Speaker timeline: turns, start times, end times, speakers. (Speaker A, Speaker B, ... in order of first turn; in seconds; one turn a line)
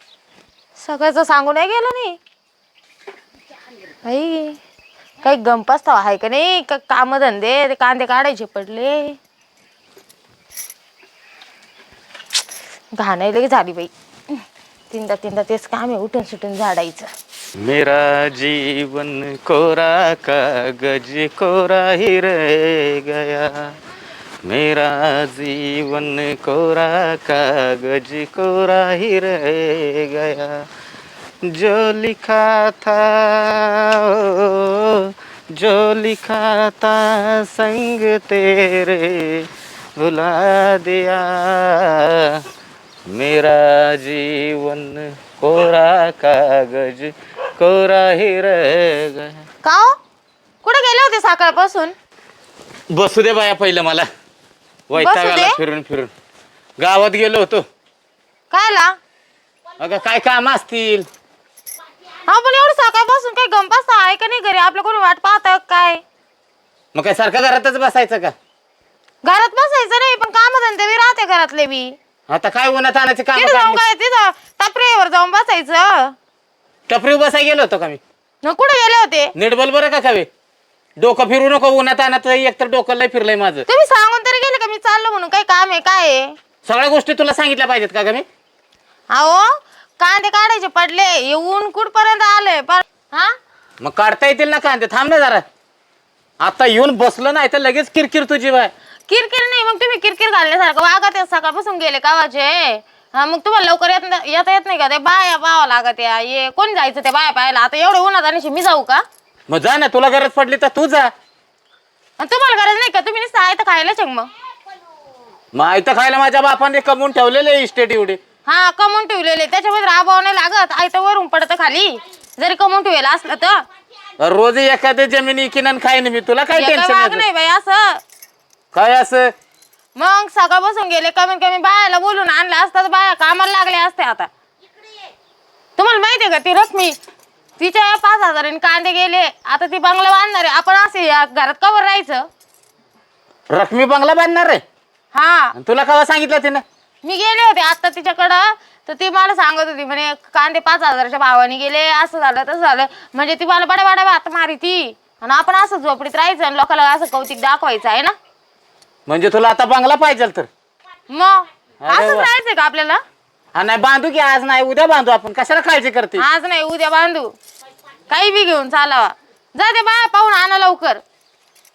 Speaker A: 0.8-2.2
Speaker A: 4.0-4.6
Speaker A: 5.2-9.2
Speaker A: 12.9-17.1
Speaker B: 17.6-23.8
Speaker B: 24.4-30.7
Speaker B: 31.4-42.4
Speaker B: 43.1-49.5
Speaker A: 49.6-50.0
Speaker A: 50.6-51.9
Speaker B: 52.9-54.1
Speaker B: 54.9-56.1
Speaker A: 54.9-55.6
Speaker B: 56.8-57.6
Speaker A: 58.5-59.0
Speaker B: 59.8-61.1
Speaker A: 62.2-66.0
Speaker B: 66.9-68.3
Speaker A: 69.2-72.0
Speaker B: 72.3-73.8
Speaker A: 73.3-76.1
Speaker B: 76.9-78.0
Speaker A: 78.4-79.3
Speaker B: 79.3-80.3
Speaker B: 81.0-83.6
Speaker A: 83.7-86.4
Speaker B: 86.6-88.2
Speaker A: 89.1-89.5
Speaker A: 90.0-93.3
Speaker B: 93.8-95.4
Speaker B: 96.4-98.7
Speaker A: 99.1-109.0
Speaker B: 109.5-111.1
Speaker A: 112.2-114.3
Speaker B: 115.5-118.2
Speaker A: 118.5-123.6
Speaker B: 124.2-127.2
Speaker A: 126.5-128.0
Speaker B: 128.7-129.3
Speaker A: 129.9-134.3
Speaker A: 135.8-137.0
Speaker A: 137.6-142.3
Speaker B: 143.5-144.6
Speaker A: 145.1-145.5
Speaker B: 145.5-146.6
Speaker A: 147.0-158.2
Speaker B: 159.1-160.5
Speaker A: 161.1-163.0
Speaker B: 161.8-162.3
Speaker B: 163.5-166.2
Speaker A: 166.2-167.3
Speaker A: 168.1-171.0